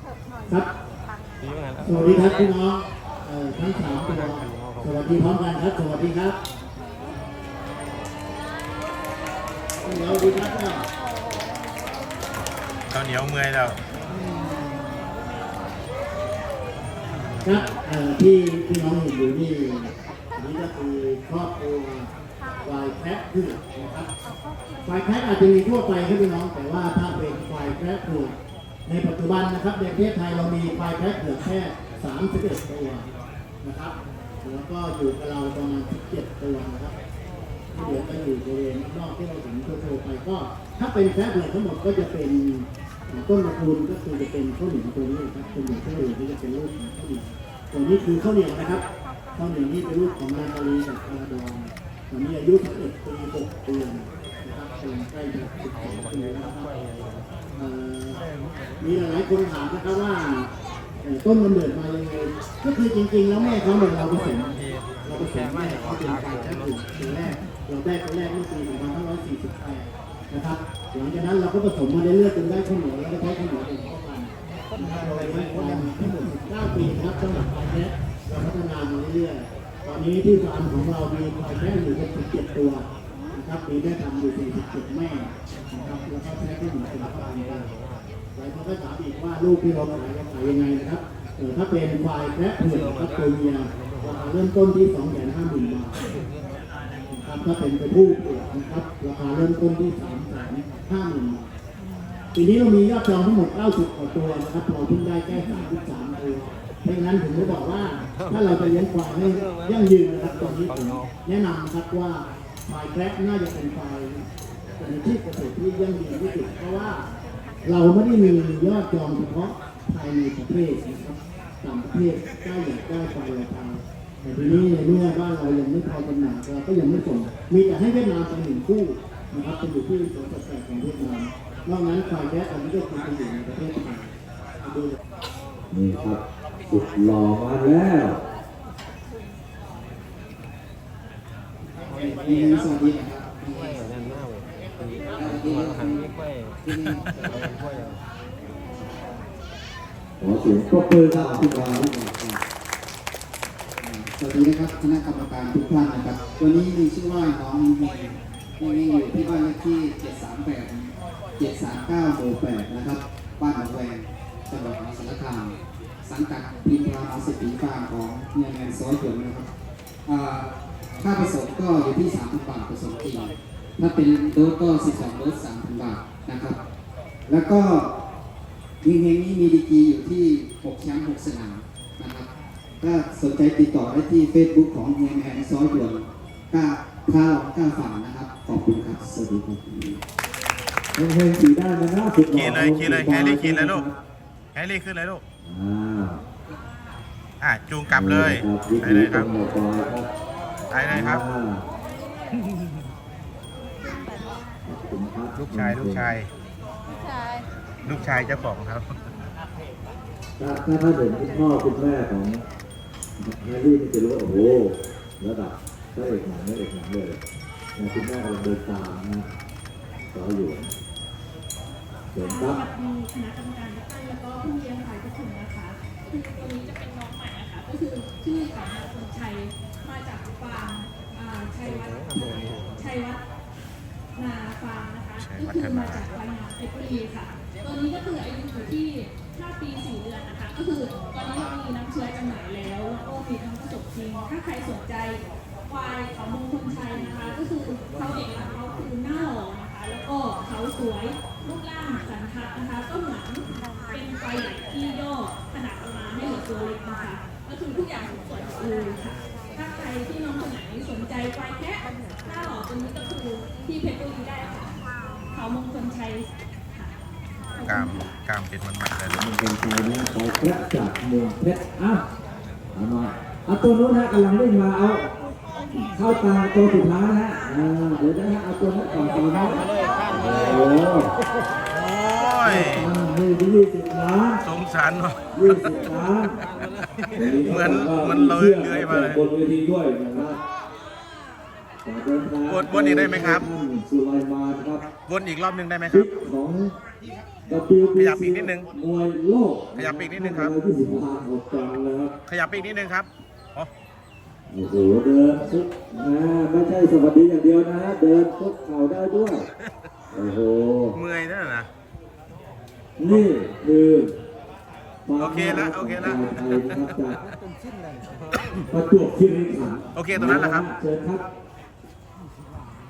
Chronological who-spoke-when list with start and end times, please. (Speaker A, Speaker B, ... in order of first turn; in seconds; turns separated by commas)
Speaker A: 1.8-6.3, Speaker A: 9.8-10.8, Speaker B: 12.9-13.8, Speaker A: 17.4-22.1, Speaker A: 22.6-24.1, Speaker A: 24.8-28.3, Speaker A: 28.9-33.0, Speaker A: 33.6-36.9, Speaker A: 37.7-48.8, Speaker A: 49.4-56.7, Speaker A: 57.6-58.2, Speaker A: 58.8-60.5, Speaker A: 61.0-82.8, Speaker A: 83.3-87.7, Speaker A: 88.3-96.0, Speaker A: 97.1-101.5, Speaker A: 102.3-114.2, Speaker A: 114.8-117.0, Speaker A: 117.6-134.9, Speaker C: 135.7-138.2, Speaker D: 141.8-143.9, Speaker D: 145.1-146.1, Speaker D: 146.6-147.7, Speaker C: 150.2-151.9, Speaker D: 150.9-152.4, Speaker D: 153.8-169.4, Speaker D: 170.1-176.6, Speaker D: 177.3-177.9, Speaker D: 178.8-182.2, Speaker D: 182.8-190.0, Speaker C: 190.9-193.9, Speaker B: 192.3-193.9, Speaker B: 194.5-195.2, Speaker C: 195.4-196.2, Speaker B: 197.4-199.3, Speaker C: 197.9-200.1, Speaker B: 200.7-201.2, Speaker C: 200.9-201.6, Speaker C: 204.7-206.2, Speaker B: 205.3-206.3, Speaker B: 207.8-208.9, Speaker C: 210.4-212.4, Speaker C: 213.2-217.2, Speaker C: 217.8-219.3, Speaker C: 220.1-220.7, Speaker C: 222.1-222.6, Speaker E: 222.2-233.2, Speaker E: 234.2-264.7, Speaker B: 235.2-236.0, Speaker E: 265.3-266.9, Speaker E: 267.6-268.1, Speaker B: 267.7-269.2, Speaker C: 269.1-272.0, Speaker C: 272.7-275.1, Speaker C: 275.9-281.1, Speaker B: 281.8-282.9, Speaker C: 282.4-284.4, Speaker B: 284.4-285.2, Speaker C: 285.3-286.4, Speaker C: 287.1-290.4, Speaker B: 287.4-289.3, Speaker C: 291.8-294.8, Speaker B: 292.4-293.5, Speaker B: 295.1-296.1, Speaker C: 295.9-296.7, Speaker C: 297.5-302.1, Speaker B: 297.9-298.7, Speaker B: 299.7-300.6, Speaker B: 302.3-303.7, Speaker C: 304.5-309.4, Speaker C: 310.1-311.0, Speaker B: 310.9-311.7, Speaker C: 313.0-314.1, Speaker C: 315.1-317.2, Speaker B: 315.2-316.2, Speaker C: 318.7-321.2, Speaker B: 319.9-320.7